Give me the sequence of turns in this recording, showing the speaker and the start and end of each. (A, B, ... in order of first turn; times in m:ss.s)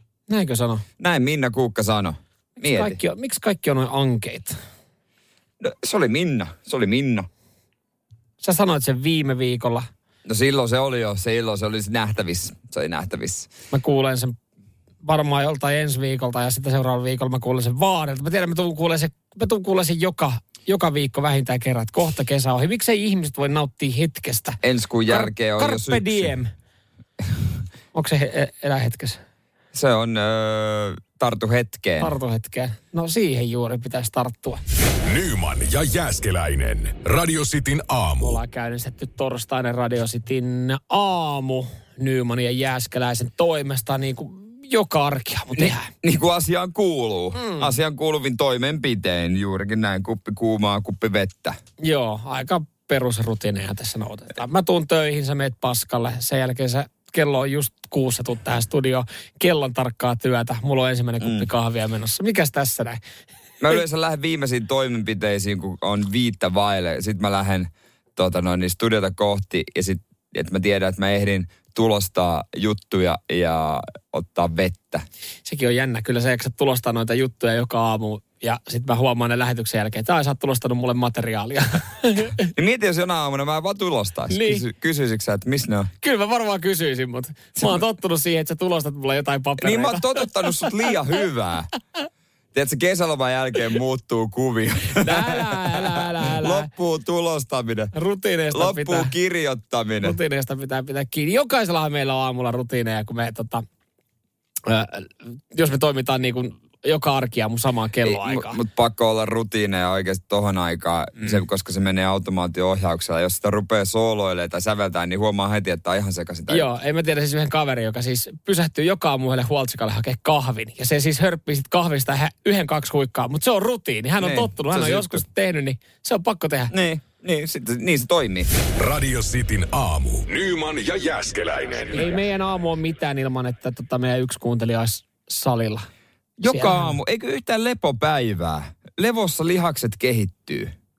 0:00.3-0:00.8 A
0:01.0-0:03.0 B
0:02.6-0:04.6 A
0:05.6-0:07.3 B
0:08.4-0:09.9 A
0:10.2-0:13.5 B
0:13.7-0:14.4 A
0:15.0-0:26.5 A
0:24.6-0:26.4 B
0:27.9-0:29.2 A
0:29.7-0:32.1 B
0:32.0-0:34.6 A
0:35.0-0:38.4 C
0:38.2-0:45.9 A
0:45.5-0:51.6 B
0:47.3-0:47.7 A
0:51.8-1:03.0 A
1:01.2-1:01.5 B
1:03.6-1:15.0 B
1:15.4-1:22.5 A
1:22.4-1:25.9 B
1:24.3-1:24.6 A
1:26.0-1:30.6 A
1:29.6-1:31.7 B
1:32.5-1:37.9 B
1:35.0-1:36.7 A
1:37.9-1:39.1 A
1:38.5-1:40.2 B
1:40.0-1:43.6 A
1:44.6-1:48.6 A
1:48.0-1:56.7 B
1:56.5-2:06.7 A
2:04.2-2:05.2 B
2:06.7-2:08.5 B
2:08.8-2:12.2 C
2:11.9-2:15.8 A
2:16.4-2:20.7 B
2:16.5-2:16.9 A